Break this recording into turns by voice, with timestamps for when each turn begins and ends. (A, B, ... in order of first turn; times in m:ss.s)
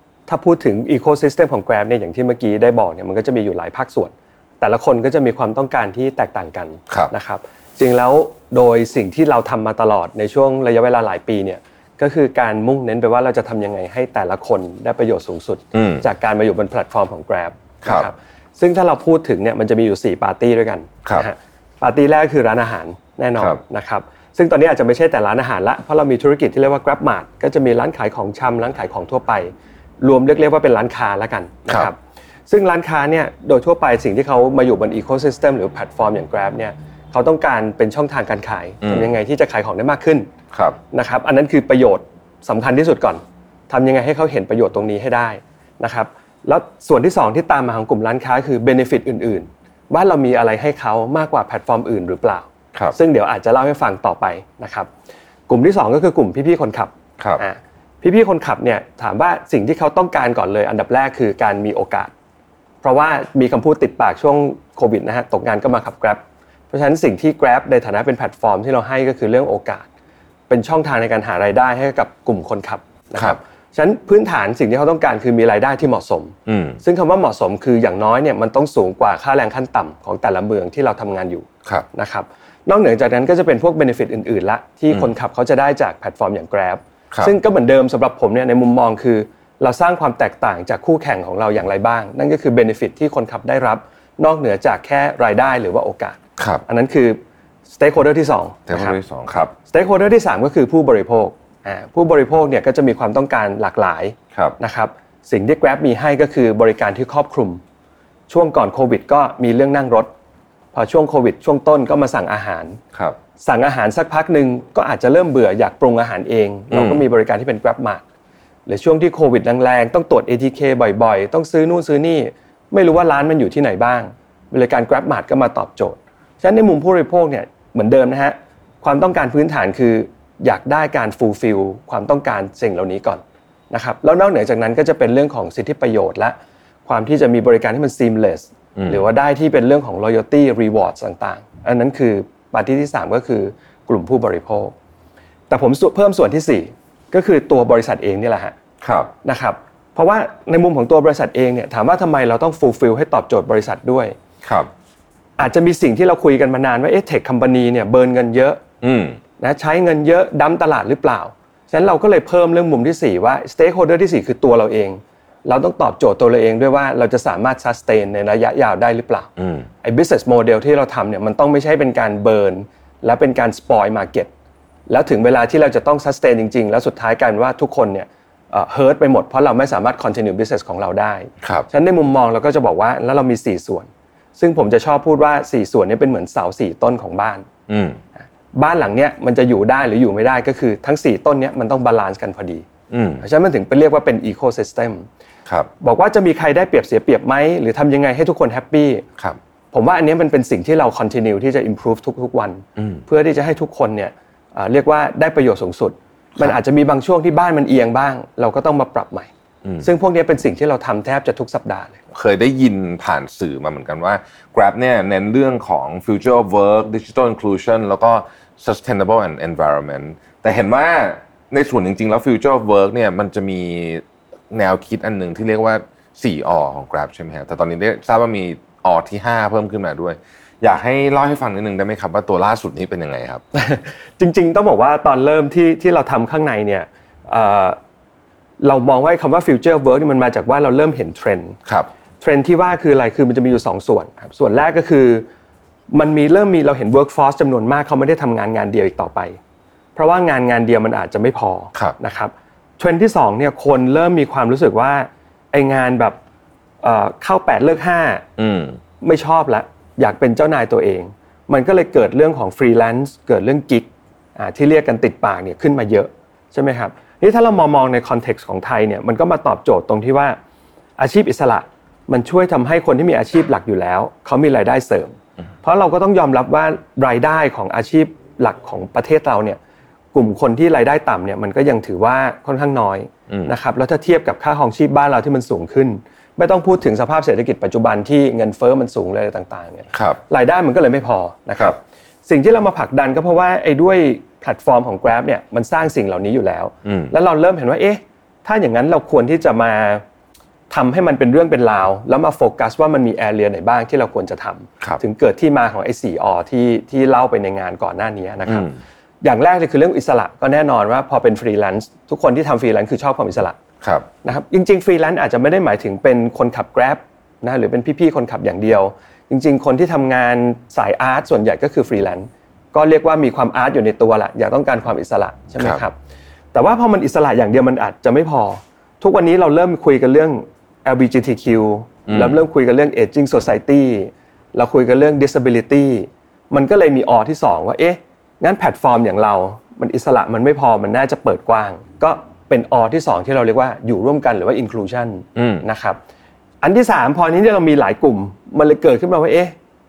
0:00.3-0:32.0 A
0:15.7-0:16.0 B
0:17.8-0:18.1 B
0:32.5-0:40.3 A
0:38.8-0:39.1 B
0:40.5-0:40.8 B
0:40.9-0:54.9 A
0:55.5-1:02.1 A
1:02.8-1:09.9 A
1:10.5-1:39.0 A
1:16.5-1:16.8 B
1:36.4-1:36.6 B
1:38.7-1:39.5 B
1:39.7-1:47.6 A
1:48.3-1:50.1 A
1:50.7-1:52.8 A
1:53.4-1:58.0 A
1:56.7-1:57.0 B
1:58.7-2:24.7 A
2:18.8-2:19.0 B
2:25.5-2:28.6 A
2:28.8-2:29.1 B
2:29.2-2:34.2 A
2:34.4-2:34.7 B
2:35.4-2:38.6 A
2:38.8-2:39.2 B
2:39.4-2:49.3 A
2:49.4-2:49.6 B
2:49.8-2:54.3 A
2:54.9-3:07.5 A
3:01.4-3:01.7 B
3:07.7-3:08.0 B
3:08.5-3:12.7 A
3:12.9-3:13.2 B
3:13.2-3:15.1 A
3:15.8-3:19.0 A
3:19.7-3:29.3 A
3:22.8-3:23.0 B
3:29.8-3:32.0 A
3:32.1-3:53.4 B
3:53.5-3:57.8 A
3:58.6-4:01.6 A
4:02.2-4:05.3 A
4:05.9-4:09.4 A
4:10.0-4:16.2 A
4:16.8-4:18.3 A
4:18.4-4:18.8 B
4:19.0-4:30.4 A
4:31.0-4:39.6 A
4:40.1-5:00.0 A
4:49.9-4:50.2 B
4:56.8-4:57.1 B
5:00.7-5:13.6 A
5:08.5-5:08.8 B
5:13.8-5:14.1 B
5:14.2-5:26.0 A
5:25.6-5:25.8 B
5:26.5-5:46.0 A
5:32.1-5:32.4 B
5:45.4-5:45.6 B
5:46.6-5:49.6 A